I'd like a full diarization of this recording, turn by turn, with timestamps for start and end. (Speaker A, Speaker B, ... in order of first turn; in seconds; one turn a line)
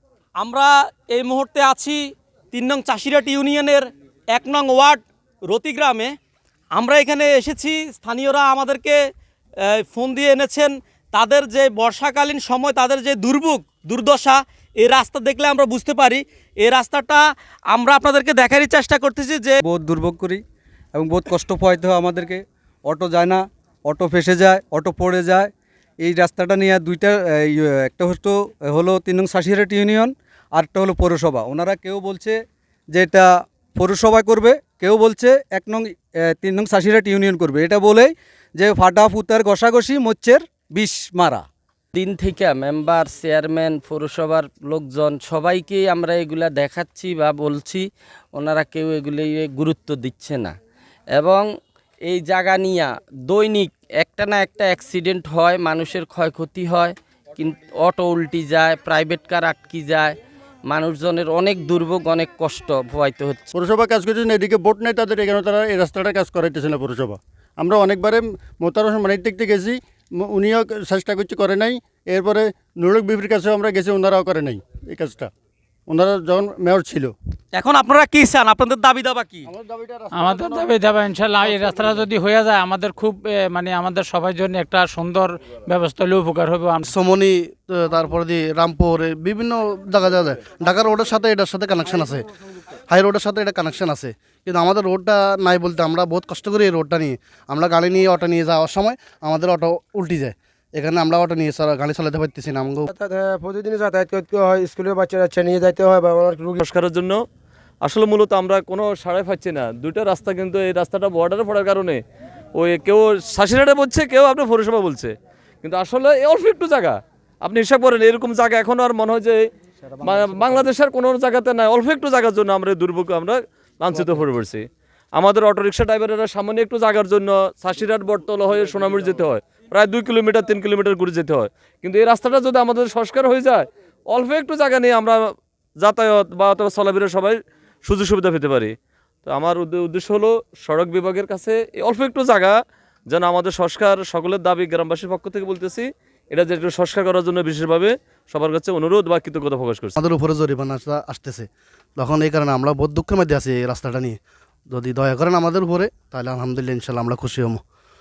Speaker A: 0.4-2.0
Speaker A: 2.5-6.1
Speaker A: 6.7-9.0
Speaker A: 9.8-19.6
Speaker B: 19.6-20.4
Speaker B: 20.9-25.5
Speaker B: 26.0-32.4
Speaker B: 32.9-41.5
Speaker C: 41.9-50.5
Speaker C: 51.1-51.5
Speaker C: 52.0-60.1
Speaker C: 60.6-63.5
Speaker D: 63.5-75.3
Speaker D: 75.9-77.1
Speaker A: 77.5-79.5
Speaker D: 79.6-80.2
Speaker E: 80.1-86.9
Speaker F: 86.9-102.9
Speaker G: 102.9-106.6
Speaker H: 106.6-107.2
Speaker H: 107.8-112.0
Speaker H: 112.5-119.4
Speaker H: 120.0-124.6
Speaker H: 125.2-135.2
Speaker H: 135.8-138.7
Speaker H: 139.2-142.5
Speaker H: 143.1-150.0
Speaker F: 150.0-154.2
Speaker F: 154.7-157.6